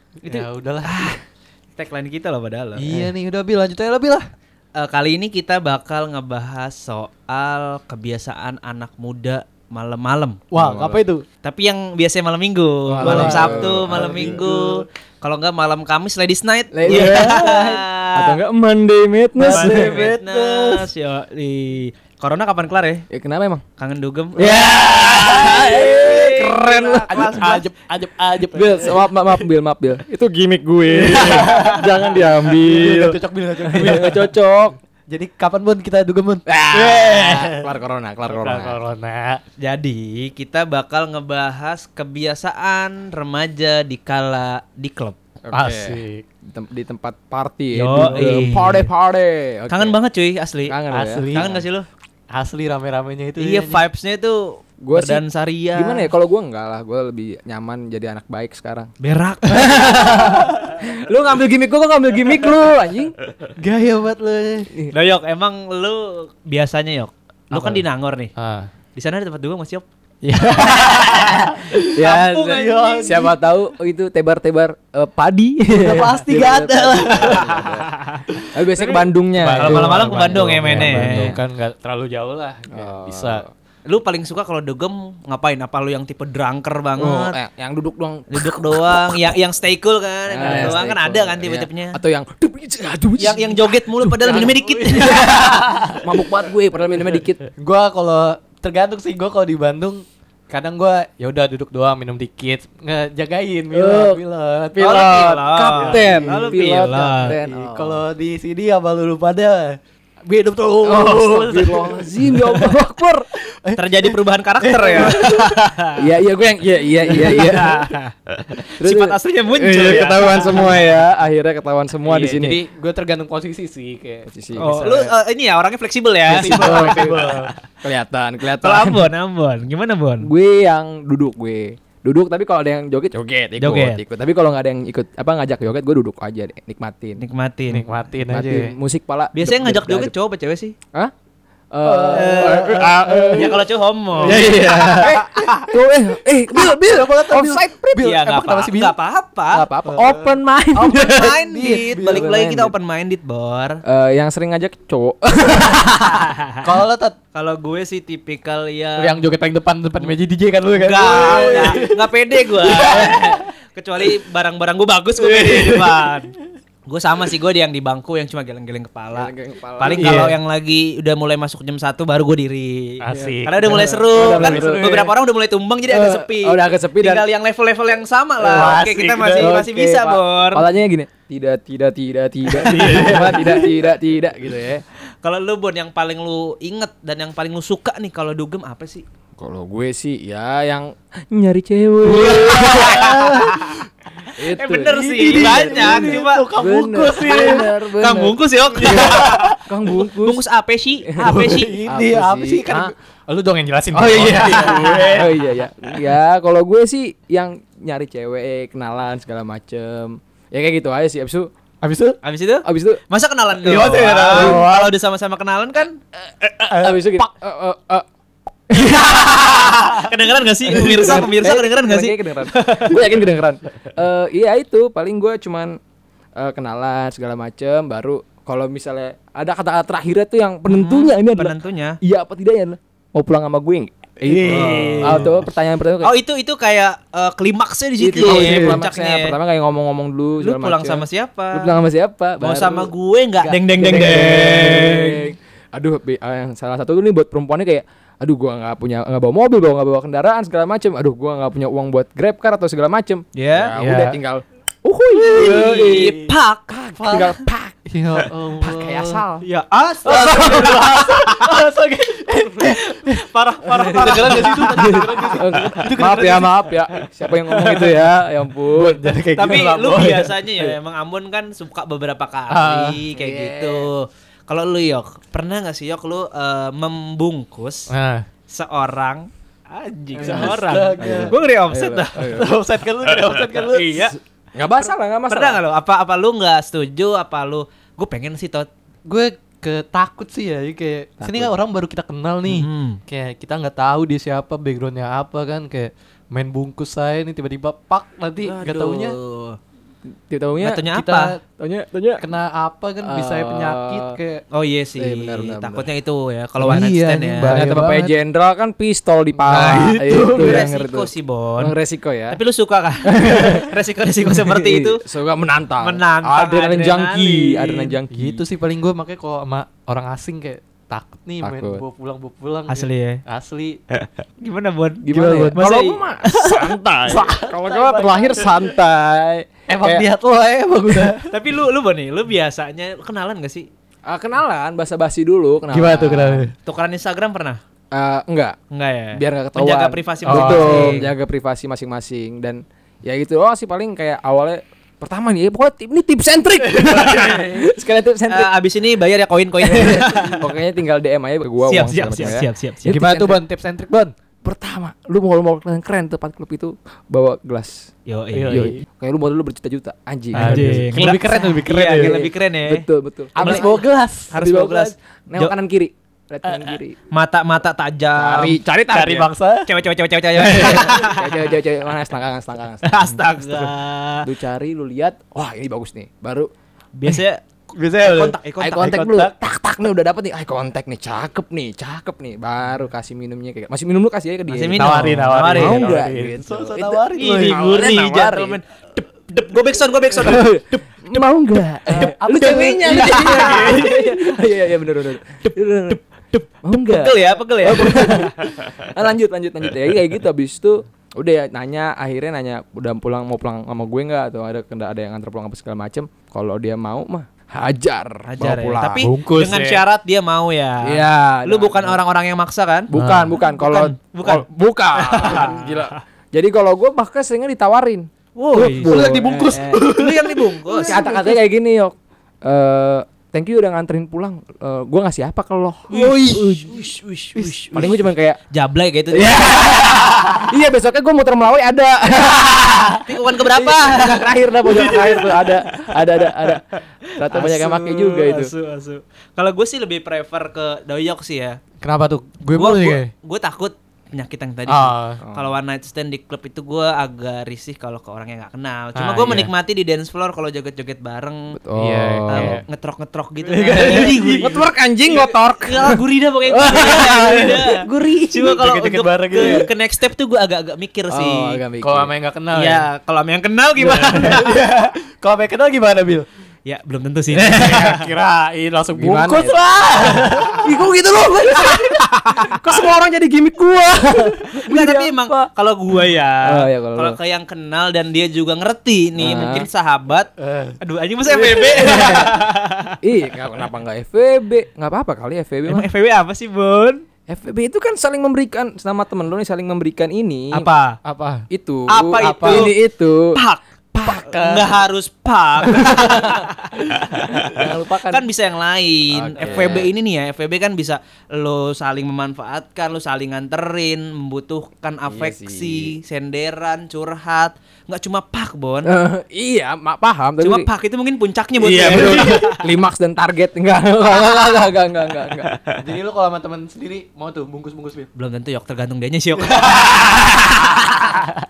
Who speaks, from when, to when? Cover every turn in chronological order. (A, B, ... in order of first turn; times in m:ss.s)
0:00.2-0:01.2 A
0:00.2-0:01.2 B
0:01.8-0:02.9 B
0:02.8-0:04.2 A
0:04.8-0:10.4 B
0:10.5-0:11.2 A
0:10.5-0:11.0 C
0:11.4-0:18.4 B
0:12.9-0:14.5 C
0:13.0-0:14.9 A
0:16.7-0:20.0 C
0:16.9-0:17.5 A
0:19.4-0:20.9 A
0:19.4-0:23.0 B
0:23.1-0:23.6 C
0:23.8-0:27.7 B
0:24.4-0:27.3 C
0:24.4-0:26.4 A
0:27.1-0:29.0 A
0:28.5-0:34.8 C
0:30.9-0:34.3 A
0:31.3-0:31.8 B
0:35.1-0:37.7 A
0:36.4-0:38.8 C
0:38.2-0:39.4 A
0:39.6-0:45.2 B
0:45.4-0:50.0 C
0:45.5-0:46.2 A
0:47.7-0:48.9 B
0:47.9-0:48.3 A
0:49.7-0:50.8 B
0:50.7-0:51.6 C
0:50.9-0:51.6 A
0:51.3-0:51.9 B
0:52.3-0:53.8 A
0:53.4-0:56.1 B
0:54.8-0:58.9 C
0:59.0-1:00.7 B
0:59.5-1:03.1 C
1:03.6-1:04.7 A
1:04.9-1:08.3 B
1:07.5-1:07.8 A
1:08.4-1:08.7 A
1:09.0-1:09.8 B
1:10.2-1:13.3 A
1:10.8-1:13.2 B
1:11.9-1:17.9 C
1:15.7-1:17.7 A
1:17.2-1:18.4 B
1:18.4-1:23.4 A
1:18.5-1:21.4 C
1:19.6-1:21.4 B
1:22.7-1:23.5 C
1:23.8-1:27.4 B
1:27.0-1:29.3 C
1:28.3-1:32.0 B
1:30.3-1:34.5 C
1:30.4-1:30.9 A
1:33.2-1:35.4 B
1:34.2-1:36.2 A
1:36.0-1:37.4 C
1:37.6-1:46.7 A
1:43.7-1:44.2 C
1:44.8-1:47.4 B
1:45.0-1:48.0 C
1:47.2-1:52.8 A
1:50.8-1:53.3 C
1:53.4-1:55.5 A
1:53.8-1:56.0 B
1:54.9-1:55.4 C
1:56.0-1:57.8 C
1:57.0-1:57.8 A
1:57.1-2:00.7 B
1:58.8-2:02.6 C
2:00.4-2:00.7 A
2:02.0-2:05.1 A
2:04.2-2:04.9 C
2:04.6-2:07.5 B
2:06.3-2:07.5 A
2:06.5-2:07.3 C
2:07.8-2:09.1 C
2:08.6-2:10.3 B
2:10.2-2:17.2 C
2:13.6-2:14.0 B
2:17.2-2:18.1 B
2:17.7-2:18.8 A
2:18.3-2:20.1 C
2:19.3-2:20.7 B
2:21.7-2:23.6 C
2:21.8-2:23.5 A
2:22.1-2:22.8 B
2:23.3-2:25.4 B
2:24.2-2:25.7 A
2:24.2-2:28.0 C
2:26.5-2:29.0 A
2:28.0-2:29.7 B
2:29.5-2:32.7 C
2:29.9-2:30.3 A
2:30.7-2:33.8 B
2:31.0-2:32.3 A
2:33.8-2:36.2 C
2:36.0-2:36.6 B
2:36.6-2:37.2 A
2:37.3-2:39.2 B
2:39.0-2:42.1 A
2:40.8-2:46.3 B
2:42.6-2:43.4 A
2:42.9-2:43.4 C
2:45.2-2:46.1 A
2:46.8-3:00.6 B
2:49.1-2:50.2 C
2:49.8-2:50.4 A
2:53.0-2:55.1 A
2:53.2-2:55.1 C
2:55.9-2:57.3 C
2:58.4-2:59.6 A
2:58.4-2:58.8 C
2:59.4-3:04.8 C
3:02.6-3:03.5 B
3:02.6-3:03.7 A
3:05.2-3:09.0 B
3:09.4-3:13.4 C
3:12.0-3:13.8 A
3:12.3-3:13.8 B
3:14.4-3:20.4 C
3:14.4-3:16.5 B
3:14.9-3:17.8 A
3:17.2-3:21.8 B
3:18.7-3:19.6 A
3:21.0-3:22.9 C
3:21.2-3:25.4 A
3:23.9-3:31.5 C
3:24.0-3:25.3 B
3:31.8-3:32.2 A
3:32.2-3:36.0 B
3:32.6-3:33.0 C
3:33.6-3:34.8 A
3:34.3-3:34.9 C
3:36.5-3:37.3 A
3:36.7-3:38.0 C
3:38.7-3:39.0 C
3:38.9-3:40.1 A
3:38.9-3:43.0 B
3:40.7-3:45.8 C
3:40.9-3:41.2 A
3:46.4-3:56.1 C
3:50.6-3:52.0 B
3:54.2-3:55.4 A
3:54.4-3:55.4 B
3:56.0-3:59.4 B
3:58.0-4:02.9 C
3:58.2-3:58.8 A
4:00.4-4:01.8 B
4:02.4-4:05.3 B
4:03.4-4:04.6 A
4:03.8-4:17.7 C
4:13.3-4:13.7 B
4:13.7-4:14.2 A
4:15.2-4:16.3 A
4:15.2-4:16.7 B
4:17.0-4:19.2 A
4:18.6-4:19.4 C
4:19.4-4:21.4 B
4:20.0-4:23.2 A
4:20.4-4:20.7 C
4:22.6-4:25.7 B
4:23.7-4:29.0 C
4:23.8-4:28.0 A
4:28.7-4:30.3 A
4:29.3-4:37.9 B
4:32.5-4:33.0 A
4:33.1-4:33.9 C
4:37.9-4:38.2 A
4:38.5-4:42.3 B
4:40.1-4:41.3 A
4:40.2-4:42.6 C
4:42.1-4:44.1 A
4:43.6-4:44.1 B
4:43.9-4:45.6 C
4:44.7-4:48.7 B
4:49.1-4:59.2 A
4:51.2-4:51.5 C
4:52.5-4:53.0 B
4:58.4-4:59.6 B
5:00.3-5:00.9 C
5:00.6-5:01.4 B
5:00.9-5:01.4 A
5:01.6-5:02.2 C
5:02.2-5:04.4 A
5:03.0-5:04.2 C
5:04.5-5:07.7 B
5:05.0-5:05.9 C
5:06.6-5:08.2 A
5:06.6-5:06.9 C
5:07.4-5:12.4 C
5:09.3-5:10.7 A
5:10.3-5:11.7 B
5:12.3-5:15.0 B
5:13.0-5:13.7 C
5:14.2-5:18.4 C
5:15.8-5:18.0 B
5:18.1-5:23.8 A
5:21.4-5:21.8 C
5:22.7-5:23.2 B
5:24.4-5:26.6 B
5:25.0-5:30.1 C
5:25.1-5:25.6 A
5:27.1-5:28.8 A
5:29.7-5:31.3 A
5:31.3-5:33.7 B
5:34.1-5:36.5 C
5:35.7-5:36.5 A
5:36.6-5:37.6 B
5:37.9-5:38.6 C
5:38.7-5:41.1 B
5:39.1-5:48.5 C
5:40.2-5:41.0 A
5:46.7-5:47.6 A
5:48.3-5:50.5 B
5:49.6-5:53.4 C
5:51.6-5:53.0 B
5:52.9-5:54.1 A
5:54.4-5:57.9 C
5:58.0-5:58.7 B
5:58.3-5:58.8 A
5:58.5-6:00.8 C
6:00.3-6:02.3 A
6:00.3-6:02.8 B
6:01.9-6:03.8 C
6:03.3-6:04.3 A
6:03.4-6:05.5 B
6:04.3-6:07.0 C
6:06.4-6:06.7 A
6:07.1-6:08.6 B
6:08.2-6:09.3 C
6:08.9-6:09.7 A
6:09.7-6:11.4 B
6:10.4-6:11.0 A
6:10.4-6:16.5 C
6:12.8-6:14.3 B
6:17.0-6:17.4 B
6:17.7-6:19.4 A
6:18.0-6:18.9 B
6:18.5-6:24.9 C
6:24.5-6:26.0 B
6:24.7-6:27.8 A
6:25.5-6:28.6 C
6:27.1-6:30.8 B
6:30.2-6:49.0 C
6:31.8-6:34.1 A
6:32.4-6:33.9 B
6:36.3-6:38.3 B
6:48.2-6:56.0 B
6:49.0-6:49.8 A
6:50.8-6:52.0 C
6:52.9-6:59.8 C
6:52.9-6:53.4 A
6:55.4-6:55.7 A
6:58.4-7:01.0 B
6:58.7-7:01.4 A
7:00.7-7:06.6 C
7:05.9-7:06.6 A
7:05.9-7:07.9 B
7:07.3-7:08.0 A
7:07.7-7:08.4 C
7:08.5-7:09.6 B
7:09.1-7:18.5 C
7:09.9-7:10.4 A
7:12.3-7:13.0 A
7:13.0-7:14.3 B
7:14.0-7:15.9 A
7:17.3-7:17.9 A
7:17.3-7:21.6 B
7:21.8-7:23.1 A
7:22.5-7:31.6 B
7:24.7-7:25.2 A
7:25.2-7:25.5 C
7:28.9-7:29.5 A
7:31.5-7:32.6 C
7:31.8-7:32.6 A
7:32.3-7:34.6 B
7:33.4-7:35.8 A
7:33.8-7:38.6 C
7:35.6-7:41.6 B
7:36.6-7:39.7 A
7:39.4-7:39.7 C
7:41.1-7:42.1 C
7:41.8-7:42.9 A
7:42.5-7:44.6 B
7:43.8-7:46.2 A
7:43.8-7:44.4 C
7:46.6-7:48.1 B
7:47.3-7:50.8 A
7:48.9-7:49.6 C
7:50.6-7:55.5 C
7:51.5-7:52.8 B
7:54.5-8:02.9 B
7:56.4-7:57.2 C
7:59.2-7:59.7 C
8:00.4-8:00.8 A
8:01.3-8:02.4 C
8:03.0-8:05.9 C
8:05.7-8:07.0 B
8:07.3-8:10.7 C
8:10.5-8:11.0 B
8:11.0-8:11.4 A
8:11.5-8:13.3 C
8:11.9-8:12.7 B
8:12.2-8:12.7 A
8:13.3-8:13.6 B
8:13.9-8:14.2 C
8:14.0-8:14.8 A
8:14.2-8:28.9 B
8:15.8-8:16.3 A
8:15.8-8:16.4 C
8:17.4-8:18.2 C
8:19.1-8:19.9 C
8:19.4-8:19.8 A
8:25.1-8:25.9 C
8:28.8-8:30.7 C
8:30.4-8:32.6 B
8:31.6-8:35.5 C
8:32.0-8:32.3 A
8:35.8-8:38.1 A
8:38.1-8:40.0 B
8:39.4-8:40.0 A
8:40.4-8:41.1 C